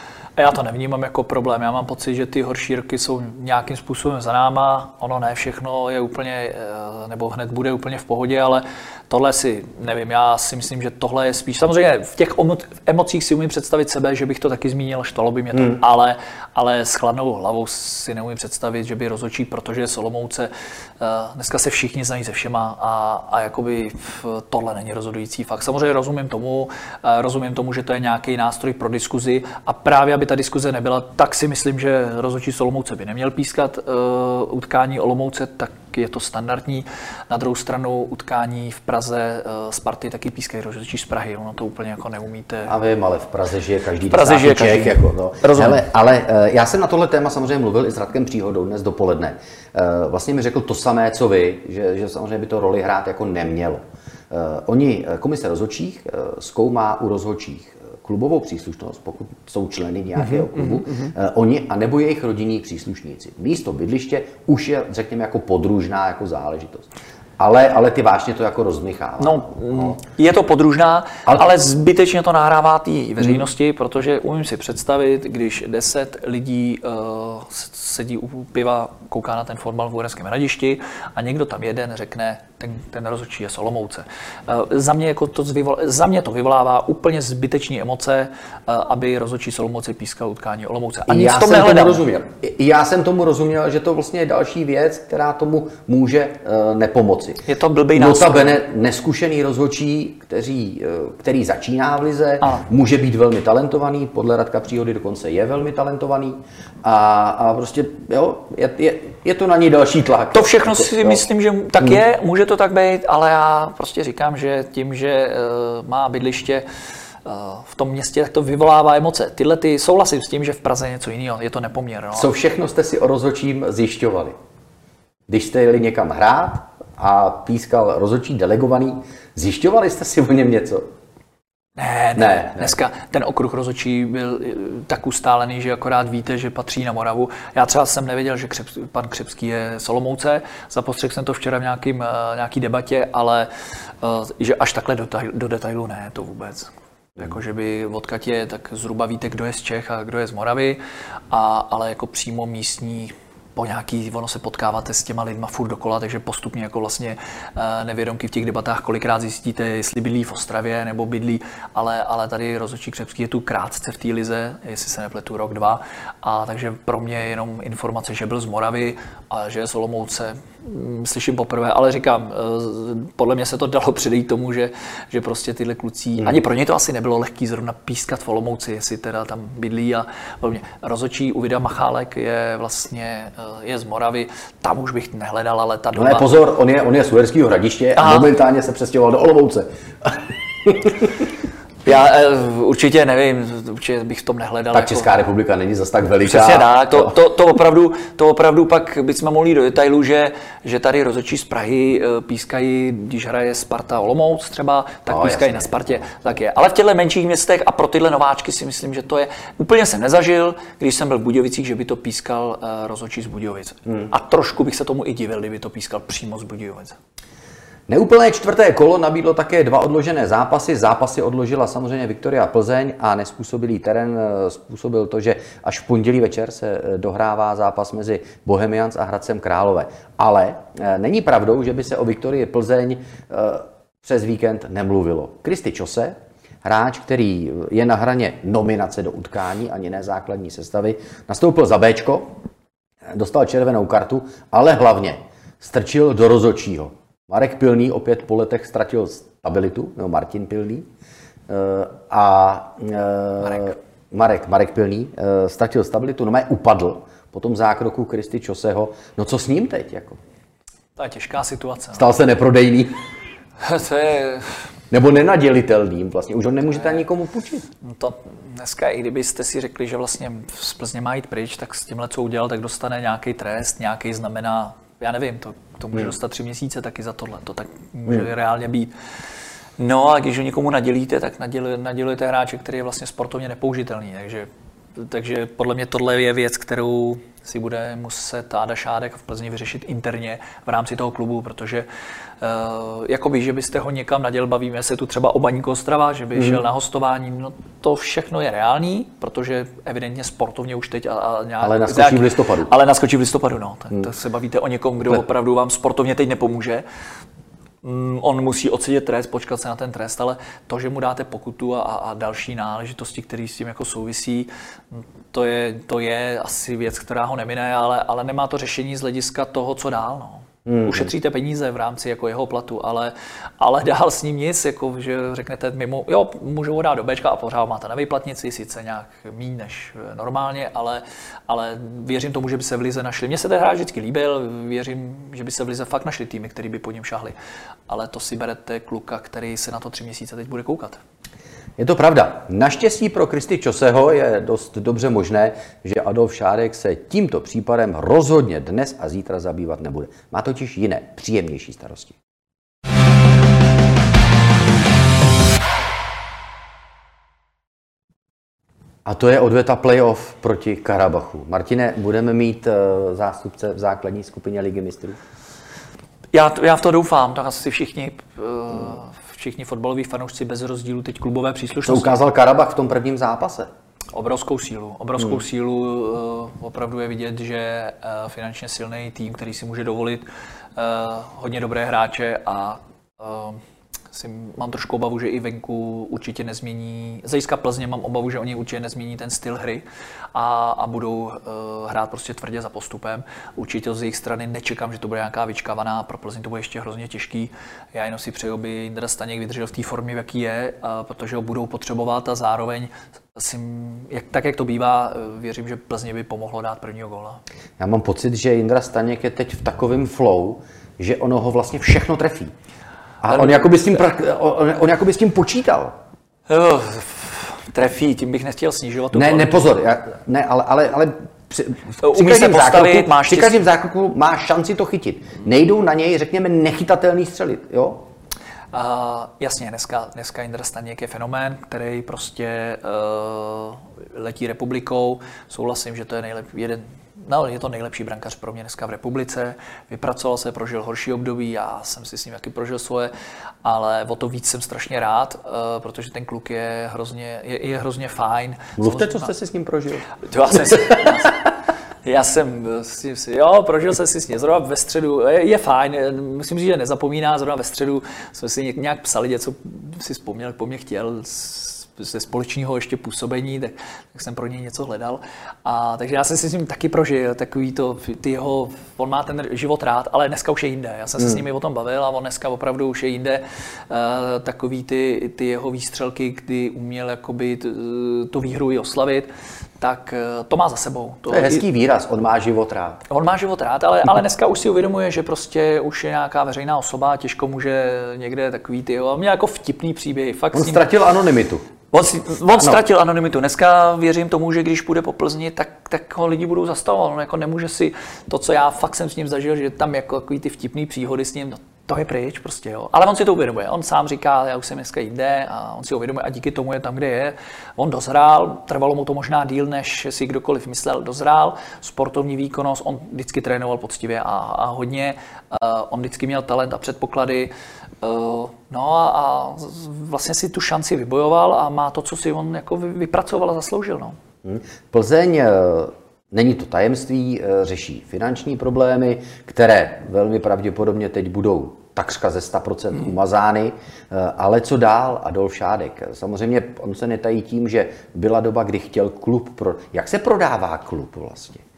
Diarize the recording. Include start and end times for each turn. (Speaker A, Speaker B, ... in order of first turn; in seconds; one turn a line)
Speaker A: 0.4-42.7
Speaker B: 42.6-70.0
Speaker A: 44.1-45.8
Speaker A: 60.2-61.1
Speaker A: 69.2-92.0
Speaker B: 91.1-97.4
Speaker A: 97.5-98.6
Speaker B: 98.0-111.2
Speaker A: 110.3-116.7
Speaker A: 117.2-122.3
Speaker B: 122.1-124.4
Speaker B: 125.3-130.9
Speaker A: 131.8-143.5
Speaker B: 132.2-132.7
Speaker A: 144.0-150.8
Speaker A: 151.3-186.2
Speaker B: 185.9-191.3
Speaker A: 188.0-188.3
Speaker A: 191.8-195.1
Speaker B: 194.7-197.1
Speaker A: 196.2-217.0
Speaker B: 205.1-206.2
Speaker B: 217.9-242.3
Speaker B: 243.1-250.9
Speaker B: 251.5-260.2
Speaker A: 253.4-253.7
Speaker A: 260.9-262.1
Speaker B: 261.9-263.0
Speaker A: 263.6-264.6
Speaker B: 264.9-267.7
Speaker A: 267.8-278.9
Speaker A: 279.8-291.9
Speaker A: 292.4-306.8
Speaker B: 301.6-302.7
Speaker A: 307.8-337.3
Speaker B: 320.6-321.1
Speaker A: 337.9-341.0
Speaker B: 341.8-352.2
Speaker B: 359.1-365.2
Speaker A: 366.3-372.1
Speaker B: 371.8-373.7
Speaker A: 374.1-380.2
Speaker A: 380.8-383.6
Speaker A: 384.1-407.4
Speaker B: 407.8-412.5
Speaker B: 413.2-415.9
Speaker A: 413.3-413.6
Speaker A: 416.5-419.8
Speaker B: 419.1-428.1
Speaker A: 422.0-423.6
Speaker A: 428.7-443.1
Speaker A: 443.6-449.3
Speaker B: 448.8-451.0
Speaker A: 450.2-451.4
Speaker A: 452.1-479.3
Speaker A: 479.8-481.6
Speaker B: 481.3-483.0
Speaker A: 483.1-490.9
Speaker B: 490.5-491.6
Speaker A: 491.9-517.5
Speaker B: 492.5-492.8
Speaker A: 518.0-524.2
Speaker B: 524.4-541.6